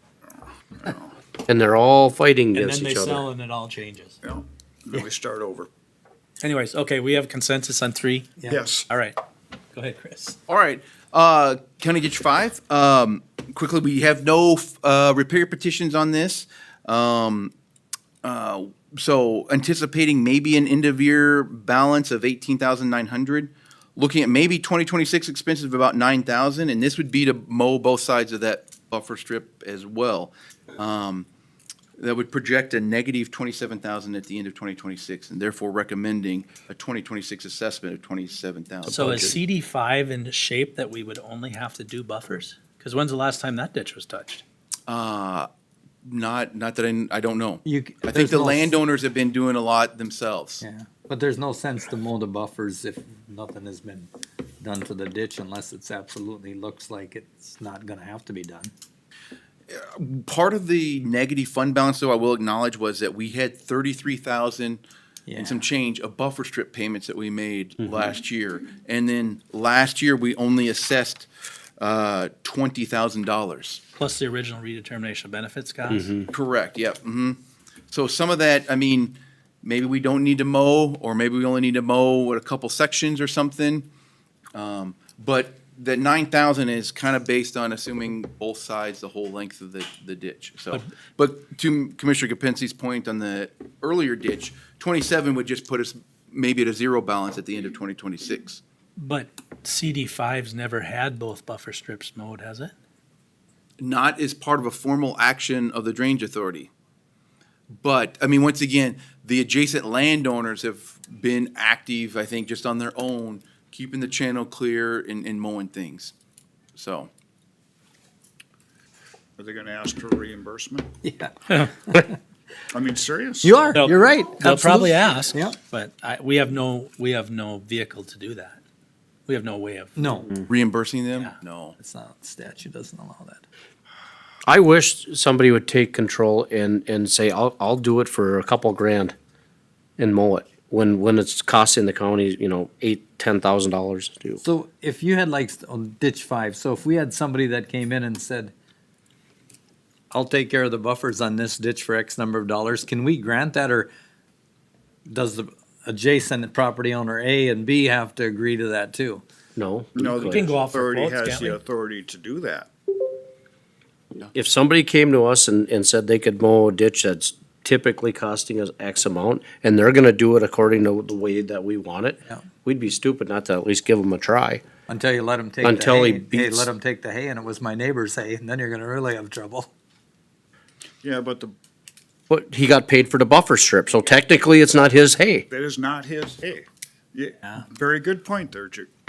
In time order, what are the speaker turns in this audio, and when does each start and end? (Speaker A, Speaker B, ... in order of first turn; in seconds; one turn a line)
Speaker A: 0.3-1.1
Speaker B: 1.5-3.2
Speaker C: 2.5-4.2
Speaker A: 4.2-5.7
Speaker C: 6.4-8.4
Speaker A: 8.5-8.9
Speaker C: 8.9-9.2
Speaker C: 9.7-10.4
Speaker D: 10.5-17.5
Speaker D: 18.2-31.3
Speaker D: 32.0-39.2
Speaker B: 38.9-39.4
Speaker C: 38.9-44.4
Speaker D: 44.9-45.5
Speaker D: 46.0-50.6
Speaker E: 47.6-48.8
Speaker E: 50.6-54.1
Speaker E: 54.6-58.7
Speaker D: 59.7-64.8
Speaker E: 65.3-65.7
Speaker D: 65.3-71.3
Speaker D: 71.8-73.8
Speaker C: 74.0-76.1
Speaker D: 76.3-83.9
Speaker D: 84.5-98.6
Speaker C: 99.0-102.7
Speaker D: 103.8-106.7
Speaker D: 107.8-116.1
Speaker D: 116.8-117.1
Speaker A: 119.4-120.9
Speaker E: 121.0-122.2
Speaker A: 122.7-123.7
Speaker E: 123.4-125.6
Speaker C: 123.7-128.6
Speaker C: 129.3-130.0
Speaker E: 130.0-130.3
Speaker D: 130.5-131.8
Speaker E: 131.8-133.4
Speaker B: 134.4-139.1
Speaker B: 140.0-144.4
Speaker E: 144.4-148.5
Speaker E: 150.1-153.9
Speaker E: 155.1-159.2
Speaker B: 159.6-160.5
Speaker A: 159.9-162.7
Speaker C: 160.2-161.6
Speaker B: 164.3-174.6
Speaker E: 174.9-179.7
Speaker B: 175.6-176.7
Speaker A: 181.0-181.5
Speaker B: 182.3-185.4
Speaker A: 185.5-188.9